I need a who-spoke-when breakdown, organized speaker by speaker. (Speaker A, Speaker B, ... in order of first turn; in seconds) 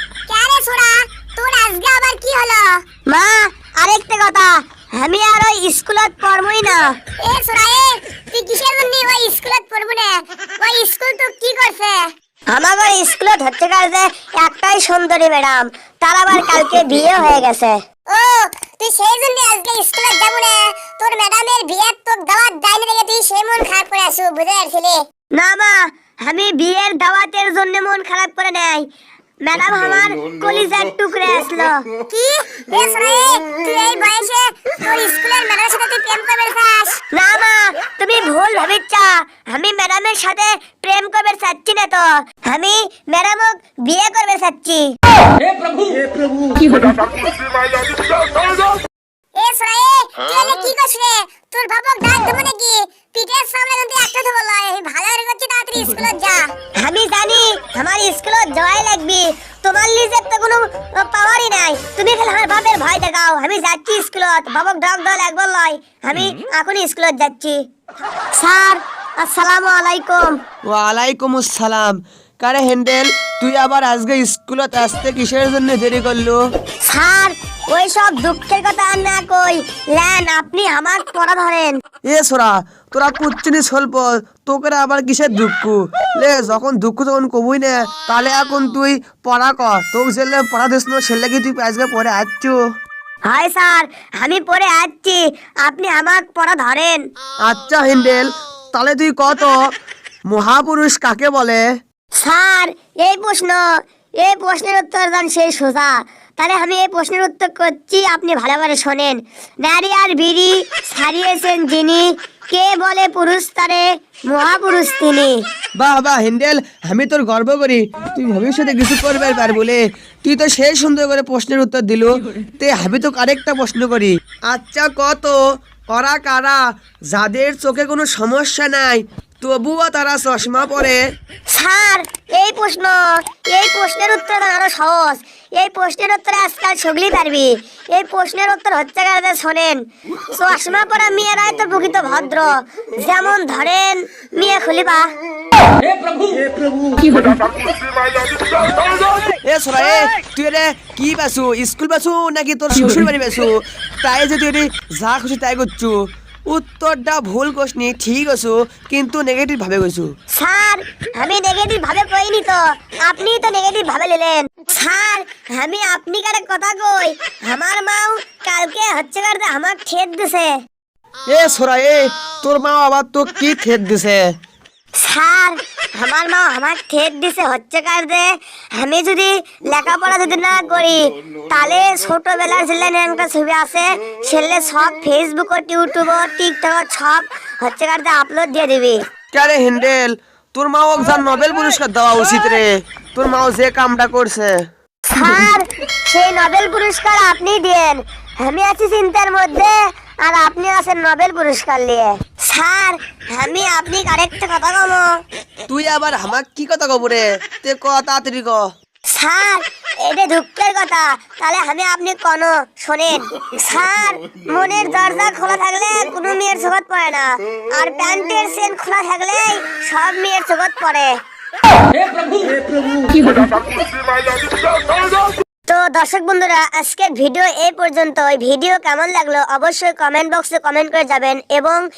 Speaker A: 0.3-2.8, 7.2-12.1, 18.1-25.0, 32.1-37.0, 49.4-56.5
Speaker B: 3.0-7.0, 12.5-17.8, 25.3-28.9, 29.4-31.8, 37.1-44.9, 56.7-67.6, 68.3-70.4, 76.8-81.8, 93.3-97.0, 102.2-103.7, 104.2-115.4, 131.5-145.1, 160.3-170.5, 175.0-189.0, 195.1-205.1, 209.1-221.1, 225.7-231.8
Speaker C: 70.7-76.4, 82.1-92.6, 97.4-99.5, 100.3-101.6, 115.8-125.4, 125.9-131.0, 149.4-156.0, 156.5-160.1, 171.3-174.3, 189.3-194.6, 205.7-208.7